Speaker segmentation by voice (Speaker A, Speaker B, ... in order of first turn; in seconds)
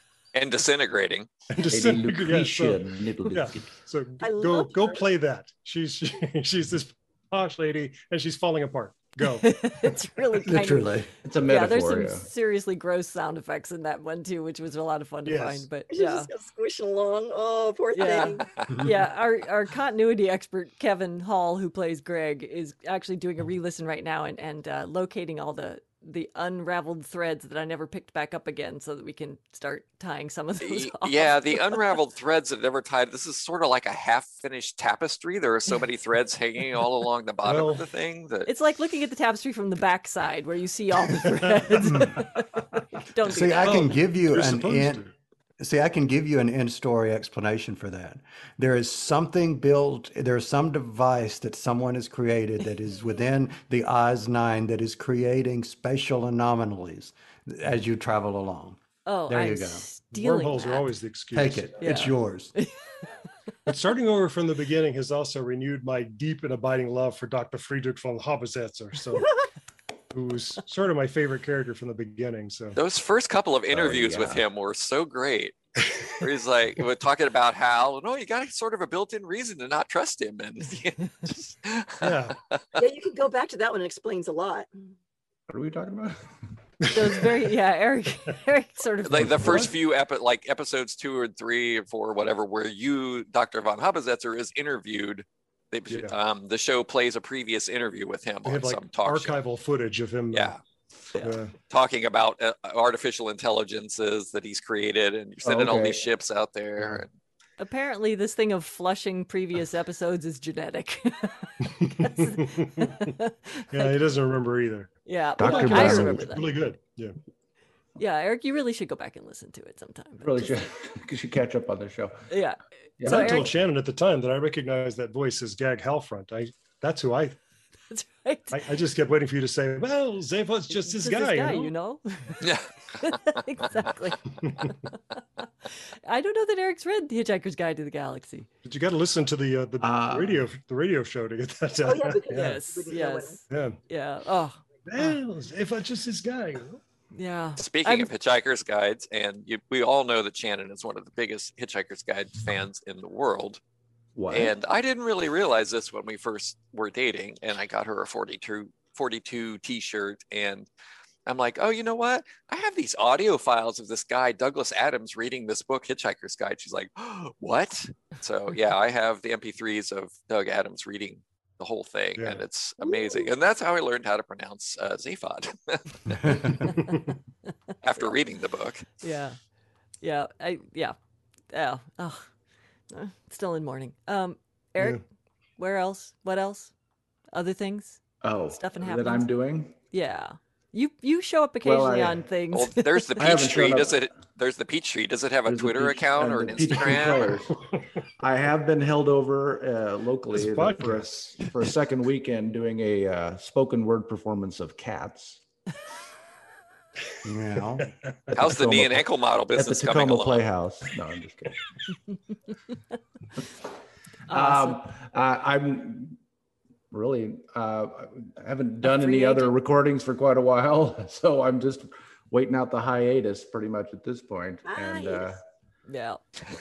Speaker A: 0.3-1.3, 30.6-38.5, 72.8-75.5, 76.1-82.3, 89.0-99.4, 100.3-100.6, 101.7-107.1, 132.4-132.7, 147.6-153.6, 154.3-160.7, 161.2-176.5, 177.8-178.9, 192.5-197.4, 208.3-210.4
Speaker B: 1.5-9.5, 15.2-15.7, 37.4-37.8, 41.3-42.1, 43.6-45.1, 60.1-62.0, 63.6-69.3, 70.1-72.8, 82.0-82.3, 86.8-87.1, 89.2-89.7, 95.9-96.2, 98.4-100.6, 101.2-101.5, 106.8-107.0, 111.7-113.1, 113.7-117.1, 123.0-127.4, 128.5-131.7, 134.4-134.7, 138.6-142.7, 143.5-143.8, 144.8-146.8, 172.2-172.4, 176.6-177.1, 200.3-201.7, 207.8-208.4
Speaker C: 1.7-3.7, 11.2-12.3, 73.7-74.4, 85.5-86.2, 105.4-106.0, 115.4-116.4, 120.2-122.2, 123.0-123.5, 139.8-140.4, 154.2-154.5, 188.2-189.7, 191.6-192.2, 193.2-194.1, 195.4-197.5, 198.2-205.4, 208.4-211.6, 214.3-216.2, 216.9-225.4
Speaker D: 4.2-5.0, 15.9-18.5, 82.8-84.7, 141.8-143.4, 172.8-173.3, 224.7-225.3
Speaker E: 9.4-16.3, 17.9-31.8, 38.5-43.9, 59.0-60.9, 61.8-62.7, 86.9-89.6, 107.6-114.0, 115.0-116.5, 118.0-120.5, 122.3-123.5, 127.9-128.6, 130.7-132.4, 133.0-134.8, 136.1-138.5, 142.3-145.2, 147.1-148.1, 179.0-179.4, 180.0-180.9, 181.5-182.3, 182.9-185.0, 185.6-186.7, 187.3-189.3, 189.9-193.2, 214.3-214.8, 218.8-219.5, 225.9-226.2
Speaker F: 10.4-11.1, 41.9-42.2, 43.2-45.0, 45.6-59.9, 61.3-62.5, 207.2-207.9